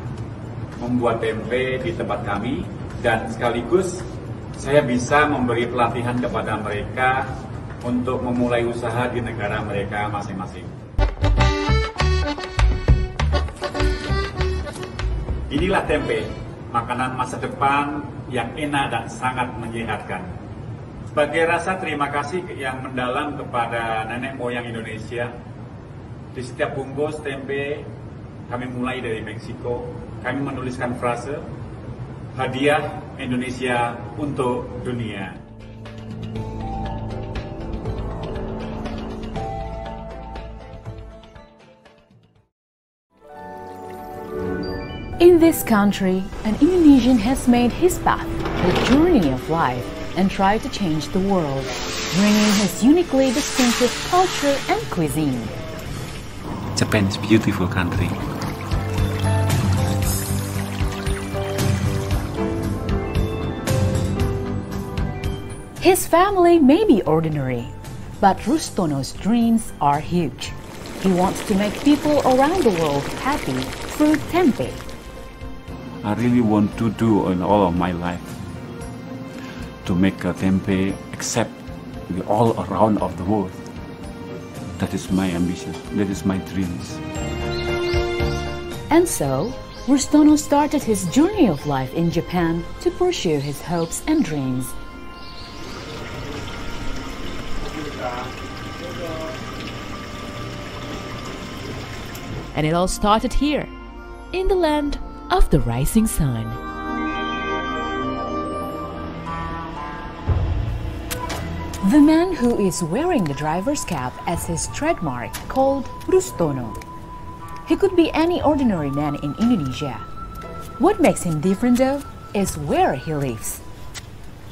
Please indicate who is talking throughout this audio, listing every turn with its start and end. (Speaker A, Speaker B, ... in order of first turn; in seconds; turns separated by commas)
Speaker A: 0.8-10.7, Speaker A: 15.5-20.3, Speaker A: 21.1-25.4, Speaker A: 26.3-27.9, Speaker A: 28.5-31.5, Speaker A: 32.4-35.4, Speaker B: 45.2-55.5, Speaker C: 56.8-58.2, Speaker B: 65.8-74.8, Speaker C: 76.0-78.3, Speaker C: 79.8-83.7, Speaker C: 84.8-87.0, Speaker B: 88.9-94.7, Speaker B: 102.5-103.7, Speaker B: 104.3-106.6, Speaker B: 111.8-116.8, Speaker B: 117.7-120.1, Speaker B: 120.8-123.6